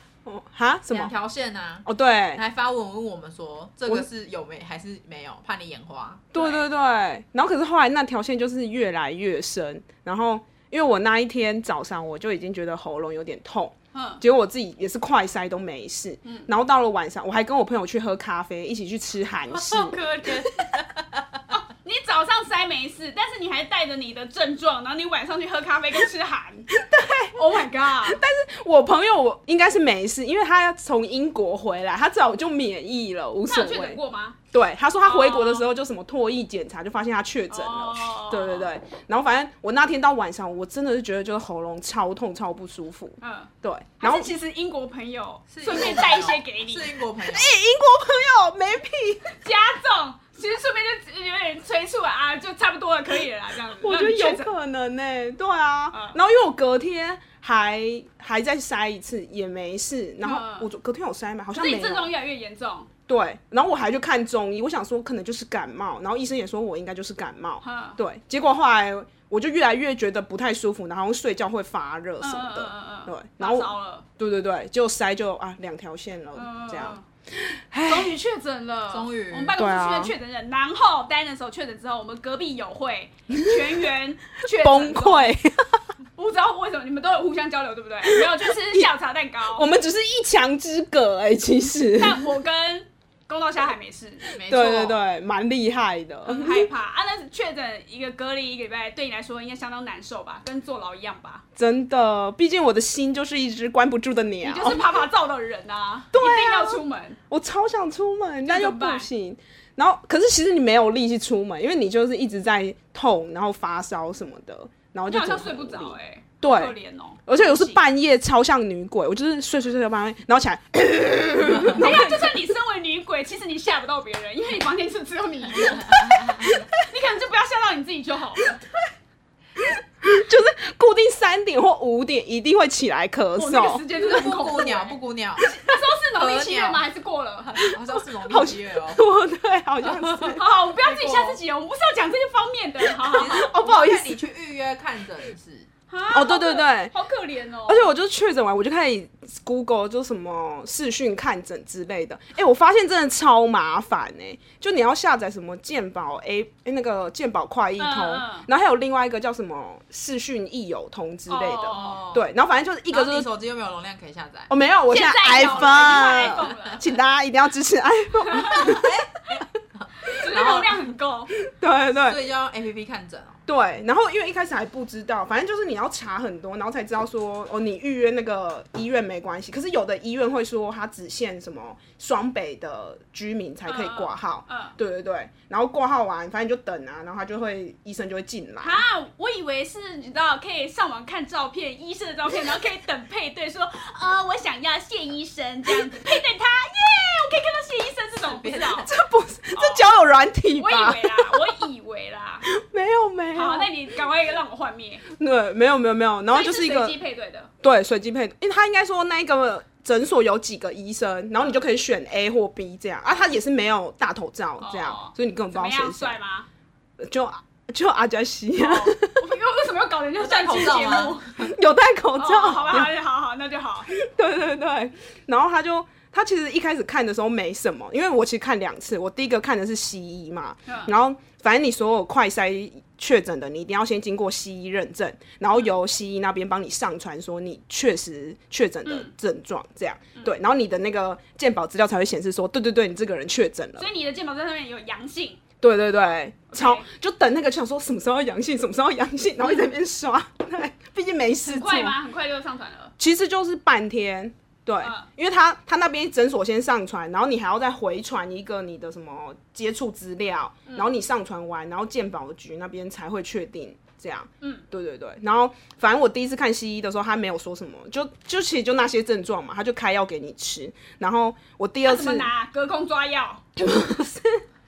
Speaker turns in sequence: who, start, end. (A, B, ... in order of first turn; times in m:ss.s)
0:00.2-0:01.1 A
0:00.9-0:06.2 B
0:01.8-0:02.4 A
0:06.3-0:20.4 A
0:06.3-0:06.6 C
0:13.9-0:14.2 C
0:19.5-0:21.2 B
0:21.5-0:26.7 C
0:26.7-0:34.0 A
0:27.3-0:28.2 C
0:33.5-0:34.4 C
0:34.5-0:44.3 A
0:35.0-0:35.7 C
0:37.5-0:38.7 C
0:43.2-0:46.9 C
0:45.5-0:47.5 B
0:47.2-0:49.3 A
0:49.4-0:54.5 C
0:53.8-1:02.1 A
0:55.9-0:56.2 C
1:00.2-1:00.7 C
1:01.5-1:02.9 C
1:03.1-1:18.2 A
1:07.6-1:08.0 C
1:12.2-1:14.0 C
1:16.3-1:17.0 C
1:17.8-1:25.3 C
1:18.9-1:19.6 B
1:19.5-1:20.1 A
1:23.3-1:23.7 A
1:24.5-1:25.8 A
1:26.2-1:29.7 C
1:28.0-1:28.9 A
1:29.5-1:32.2 A
1:32.0-1:34.3 C
1:34.3-1:35.0 B
1:34.4-1:36.7 A
1:36.2-1:41.4 C
1:41.6-1:45.0 A
1:44.4-1:47.2 C
1:46.1-2:02.4 A
1:48.4-1:49.1 C
1:55.1-1:57.8 C
2:01.7-2:08.6 C
2:09.6-2:13.8 A
2:13.4-2:17.7 C
2:13.9-2:16.8 B
2:17.4-2:19.0 B
2:18.3-2:21.3 A
2:19.8-2:20.4 B
2:20.3-2:23.4 C
2:23.0-2:24.2 A
2:23.1-2:25.7 B
2:25.9-2:27.9 C
2:26.1-2:26.9 A
2:27.7-2:43.3 A
2:37.8-2:38.5 C
2:41.3-2:42.0 C
2:41.7-2:42.3 B
2:42.9-2:44.5 B
2:44.5-2:48.9 A
2:44.9-2:46.8 C
2:45.4-2:46.8 B
2:48.2-2:48.9 C
2:48.6-2:50.8 B
2:50.0-2:51.3 C
2:51.4-2:52.2 A
2:52.0-2:53.4 B
2:53.4-3:08.8 A
3:03.6-3:04.8 C
3:08.6-3:18.9 C
3:18.3-3:18.8 B
3:18.7-3:21.5 A
3:19.6-3:19.8 C
3:20.6-3:22.5 C
3:22.4-3:23.7 A
3:23.3-3:25.0 C
3:25.1-3:27.0 A
3:26.3-3:27.5 C
3:27.6-3:36.2 A
3:34.6-3:36.5 C
3:37.0-3:39.1 A
3:38.6-3:41.2 C
3:40.2-3:41.5 B
3:41.4-3:42.9 A
3:42.2-3:43.9 C
3:43.9-4:03.9 A
3:50.6-3:50.9 C
3:58.8-3:59.1 C
4:03.8-4:05.4 C
4:05.6-4:12.0 A
4:06.5-4:06.8 C
4:11.4-4:12.9 C
4:13.0-4:32.3 A
4:14.8-4:15.1 C
4:20.6-4:20.9 C
4:24.4-4:24.6 C
4:31.8-4:33.4 C
4:33.6-4:34.4 A